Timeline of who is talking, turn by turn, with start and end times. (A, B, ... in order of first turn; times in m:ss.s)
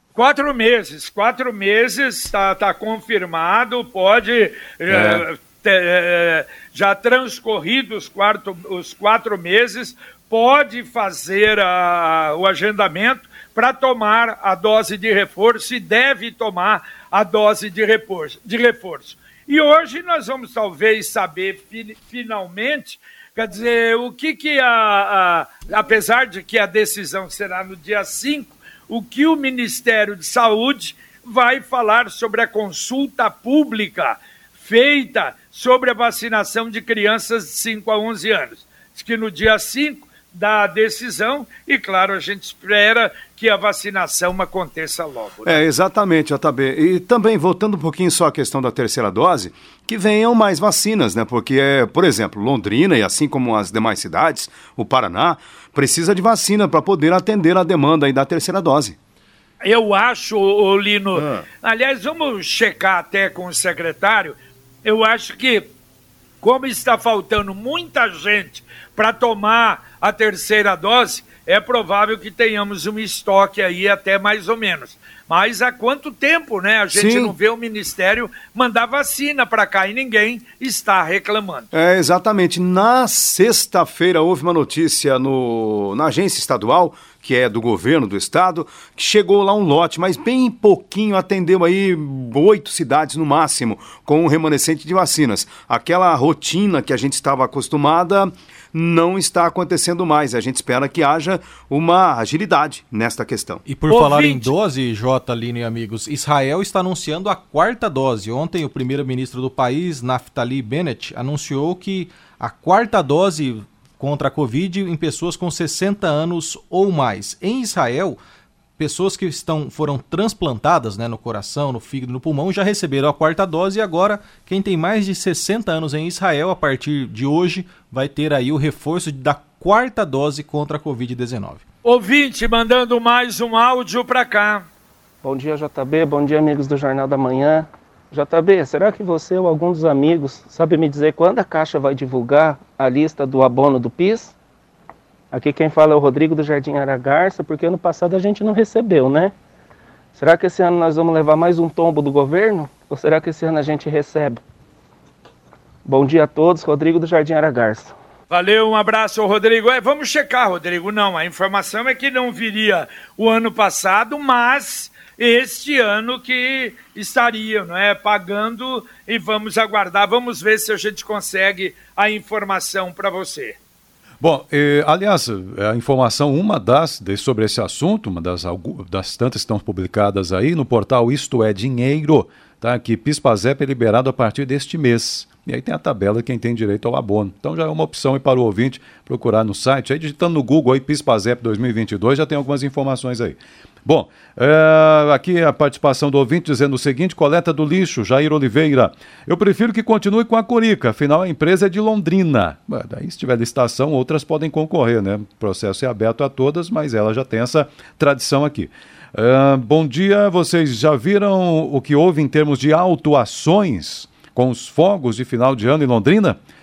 0:00.2-0:45.6 A
0:04.9-0:05.2 B
0:45.4-0:59.0 C
0:59.6-1:05.7 A
1:01.2-1:01.4 C
1:06.4-1:21.7 A
1:16.9-1:17.3 C
1:21.7-1:43.6 C
1:43.7-1:58.2 D
1:43.9-1:44.5 A
1:58.8-2:11.6 D
2:11.8-2:14.7 A
2:15.2-2:24.3 E
2:25.3-2:29.4 E
2:30.2-2:34.4 E
2:35.8-2:38.0 E
2:38.3-2:53.6 A
2:54.2-3:36.4 B